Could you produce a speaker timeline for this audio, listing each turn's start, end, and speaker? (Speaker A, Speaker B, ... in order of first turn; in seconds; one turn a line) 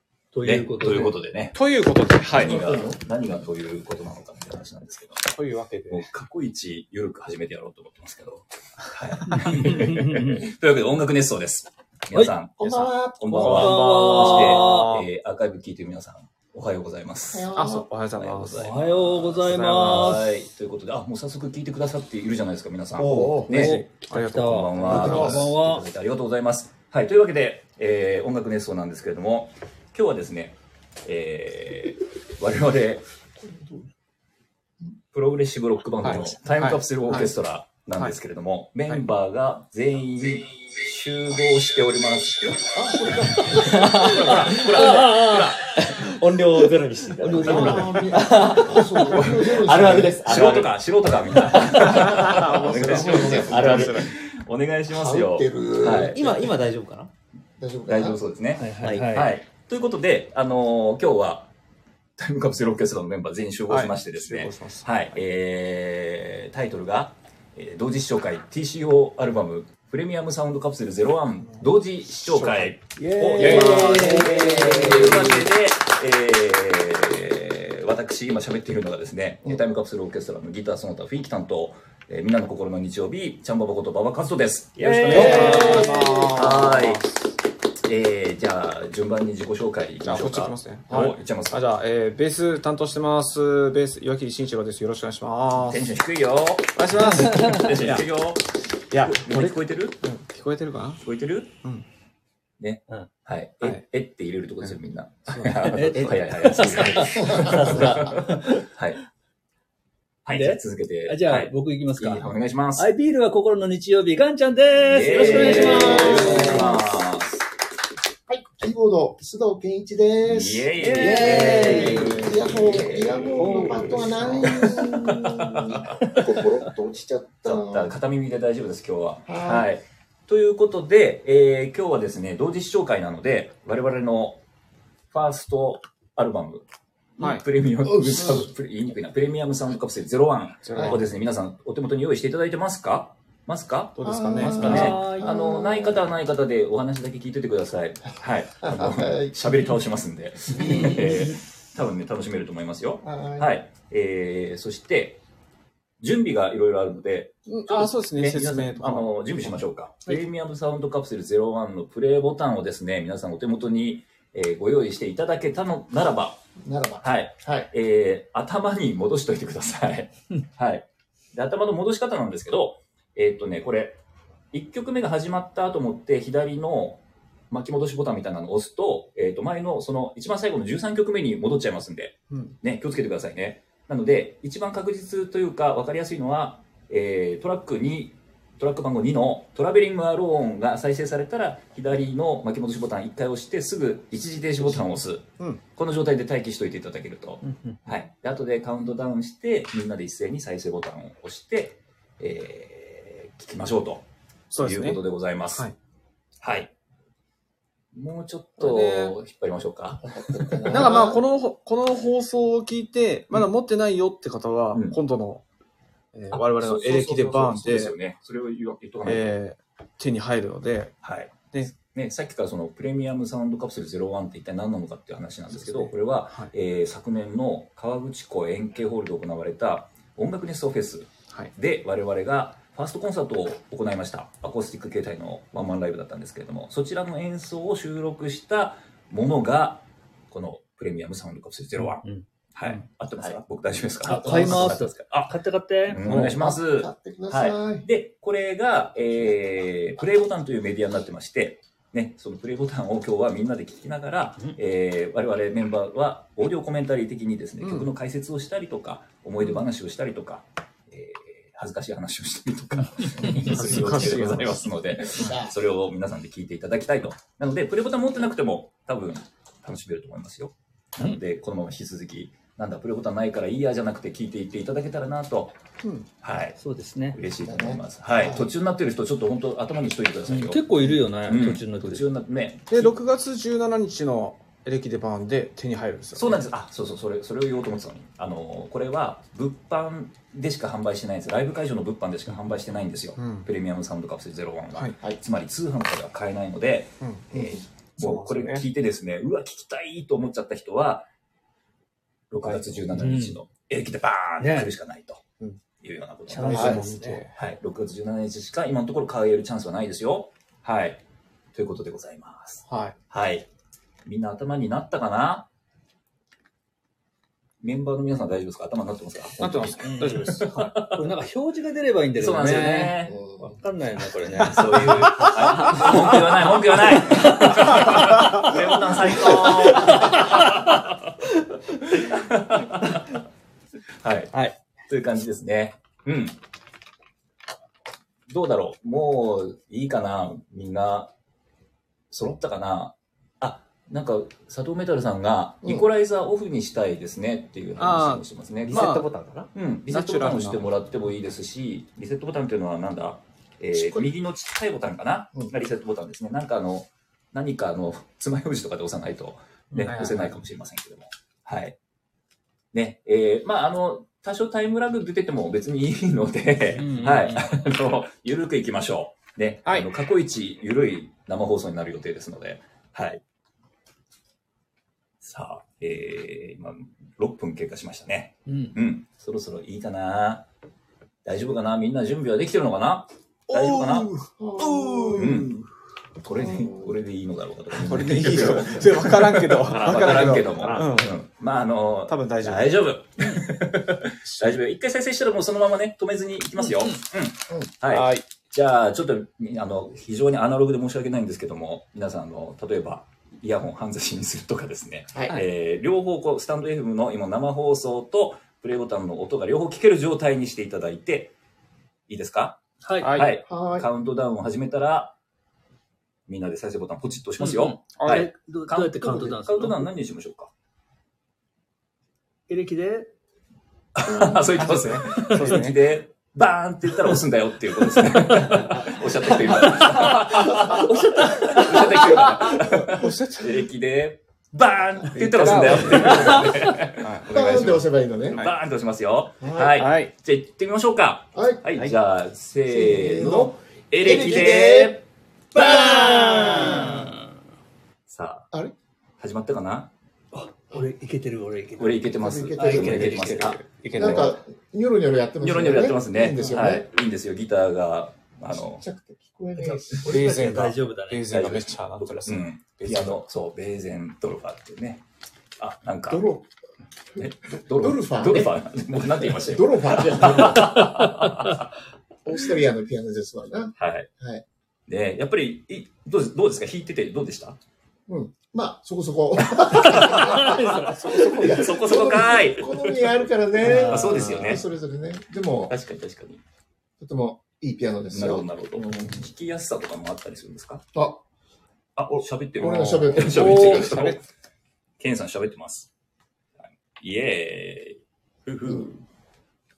Speaker A: 0.3-1.1
Speaker B: 0.4-1.6
Speaker C: 1.5-2.9
Speaker B: 2.3-5.2
Speaker D: 2.3-3.0
Speaker C: 5.2-6.1
Speaker B: 5.9-17.5
Speaker A: 9.4-10.5
Speaker D: 12.6-13.8
Speaker C: 13.4-15.1
Speaker A: 13.4-14.9
Speaker D: 17.3-17.9
Speaker C: 17.5-18.7
Speaker B: 18.1-33.0
Speaker A: 18.5-20.2
Speaker C: 19.3-20.2
Speaker D: 22.9-23.6
Speaker A: 23.5-25.8
Speaker C: 23.5-25.4
Speaker D: 24.8-25.5
Speaker D: 33.4-33.9
Speaker B: 35.1-42.7
Speaker C: 36.0-37.3
Speaker D: 42.7-44.5
Speaker E: 42.8-50.8
Speaker B: 43.5-45.8
Speaker A: 44.7-45.4
Speaker D: 47.2-50.4
Speaker B: 47.4-47.8
Speaker A: 47.5-47.7
Speaker B: 48.7-49.6
Speaker B: 50.2-56.2
Speaker E: 51.3-52.6
Speaker C: 51.7-54.1
Speaker D: 51.9-54.1
Speaker E: 53.4-53.9
Speaker D: 54.9-56.3
Speaker E: 56.1-57.1
Speaker D: 57.6-58.3
Speaker B: 57.9-61.5
Speaker A: 58.6-59.3
Speaker E: 58.8-59.2
Speaker B: 62.2-87.1
Speaker C: 63.7-65.1
Speaker C: 72.2-72.7
Speaker A: 73.0-75.4
Speaker C: 73.3-75.4
Speaker C: 84.8-87.2
Speaker A: 85.1-85.9
Speaker D: 85.1-86.0
Speaker B: 87.8-91.7
Speaker C: 90.0-95.9
Speaker B: 95.6-100.0
Speaker C: 96.8-98.0
Speaker C: 98.9-101.0
Speaker B: 101.0-101.5
Speaker B: 102.6-109.0
Speaker A: 105.6-108.7
Speaker D: 107.2-108.1
Speaker B: 110.2-112.9
Speaker A: 110.3-116.7
Speaker B: 114.8-117.4
Speaker D: 115.1-116.8
Speaker D: 118.3-127.9
Speaker B: 120.2-125.9
Speaker A: 120.8-122.3
Speaker C: 123.2-124.6
Speaker B: 127.4-134.4
Speaker D: 129.3-129.7
Speaker B: 135.1-136.6
Speaker B: 137.2-155.2
Speaker C: 137.2-137.4
Speaker D: 137.8-138.5
Speaker C: 140.6-141.1
Speaker D: 140.7-141.0
Speaker C: 143.9-145.1
Speaker D: 144.0-146.1
Speaker A: 144.5-145.3
Speaker D: 148.6-149.6
Speaker D: 150.5-151.3
Speaker A: 150.6-151.2
Speaker D: 153.0-153.5
Speaker B: 156.0-166.4
Speaker C: 157.4-159.6
Speaker D: 166.6-167.7
Speaker B: 167.0-174.0
Speaker B: 174.5-205.7
Speaker C: 182.3-182.5
Speaker A: 197.4-197.8
Speaker C: 204.5-205.8
Speaker B: 206.4-206.7
Speaker B: 207.9-210.6
Speaker C: 208.6-209.2
Speaker D: 210.1-211.2
Speaker C: 210.7-215.4
Speaker B: 214.7-215.0
Speaker C: 216.1-217.9
Speaker B: 216.3-219.4
Speaker C: 219.0-221.0
Speaker B: 221.0-245.3
Speaker C: 225.6-226.5
Speaker D: 244.0-244.7
Speaker A: 244.0-246.0
Speaker B: 245.9-275.6
Speaker C: 246.0-246.4
Speaker D: 246.1-247.8
Speaker C: 257.6-257.9
Speaker C: 263.2-265.3
Speaker D: 265.1-265.5
Speaker C: 275.8-276.1
Speaker B: 276.2-276.6
Speaker A: 276.6-277.2
Speaker B: 277.1-280.6
Speaker D: 277.4-278.5
Speaker A: 280.3-282.1
Speaker B: 281.2-282.9
Speaker C: 282.7-286.4
Speaker B: 286.1-301.1
Speaker C: 293.2-293.5
Speaker C: 297.0-298.6
Speaker D: 297.3-297.6
Speaker B: 302.3-305.2
Speaker C: 302.4-302.8
Speaker A: 302.9-303.4
Speaker A: 304.4-304.7
Speaker B: 305.8-306.8
Speaker A: 306.3-307.2
Speaker C: 306.3-307.4
Speaker D: 306.5-306.9
Speaker B: 307.3-311.0
Speaker B: 311.5-313.5
Speaker C: 312.6-312.9
Speaker B: 314.0-315.5
Speaker B: 317.6-321.0
Speaker C: 319.4-320.5
Speaker A: 319.8-328.5
Speaker B: 322.2-323.1
Speaker D: 323.1-323.6
Speaker B: 324.4-330.7
Speaker A: 329.1-330.7
Speaker B: 331.9-333.0
Speaker B: 334.0-334.3
Speaker B: 334.9-336.4
Speaker B: 338.3-341.1
Speaker B: 342.1-348.9
Speaker C: 347.8-349.1
Speaker E: 348.7-349.5
Speaker B: 349.5-361.8
Speaker C: 349.9-350.7
Speaker D: 353.8-354.1
Speaker C: 359.8-360.4
Speaker B: 362.7-373.2
Speaker A: 366.8-367.6
Speaker B: 375.2-380.4
Speaker A: 378.4-378.8
Speaker B: 381.2-384.1
Speaker C: 383.5-385.6
Speaker D: 384.4-385.5
Speaker B: 385.1-385.6
Speaker B: 386.2-411.3
Speaker D: 386.3-386.9
Speaker C: 387.7-391.2
Speaker C: 392.1-392.8
Speaker A: 396.7-397.0
Speaker C: 397.9-398.2
Speaker B: 412.1-415.1
Speaker A: 412.8-413.1
Speaker C: 413.0-413.3
Speaker D: 413.5-413.9
Speaker B: 416.3-420.5
Speaker A: 417.4-419.9
Speaker C: 418.0-418.2
Speaker A: 422.5-423.1
Speaker B: 423.9-445.0
Speaker D: 424.1-424.6
Speaker C: 424.4-425.9
Speaker A: 425.2-425.4
Speaker A: 430.2-430.6
Speaker A: 431.3-431.6
Speaker D: 432.7-433.4
Speaker C: 432.9-433.4
Speaker D: 435.2-436.7
Speaker C: 435.2-437.3
Speaker D: 437.3-438.5
Speaker D: 439.4-439.8
Speaker C: 439.7-440.1
Speaker D: 441.3-441.9
Speaker D: 442.7-445.0
Speaker D: 445.5-447.1
Speaker A: 445.5-447.3
Speaker B: 448.1-448.5
Speaker B: 449.2-449.9
Speaker A: 450.3-452.0
Speaker B: 451.8-454.3
Speaker D: 452.2-453.3
Speaker A: 452.6-453.3
Speaker C: 452.7-454.4
Speaker D: 453.9-456.9
Speaker B: 455.4-458.8
Speaker D: 458.5-460.2
Speaker A: 459.6-461.5
Speaker C: 460.0-462.5
Speaker B: 461.3-465.0
Speaker D: 462.9-463.2
Speaker B: 465.6-466.2
Speaker D: 466.1-466.5
Speaker B: 467.2-471.7
Speaker D: 467.2-468.6
Speaker D: 469.2-471.1
Speaker A: 470.6-471.1
Speaker D: 472.2-474.4
Speaker B: 473.8-474.1
Speaker B: 474.9-477.6
Speaker D: 478.1-485.7
Speaker B: 479.7-480.7
Speaker A: 480.1-481.1
Speaker B: 481.3-483.1
Speaker A: 483.6-484.6
Speaker B: 483.7-484.6
Speaker B: 485.7-486.4
Speaker D: 487.0-489.3
Speaker B: 488.1-490.8
Speaker D: 490.9-491.2
Speaker B: 491.9-494.2
Speaker D: 492.1-493.9
Speaker A: 493.2-494.0
Speaker C: 493.6-494.2
Speaker B: 495.0-495.9
Speaker B: 496.6-499.0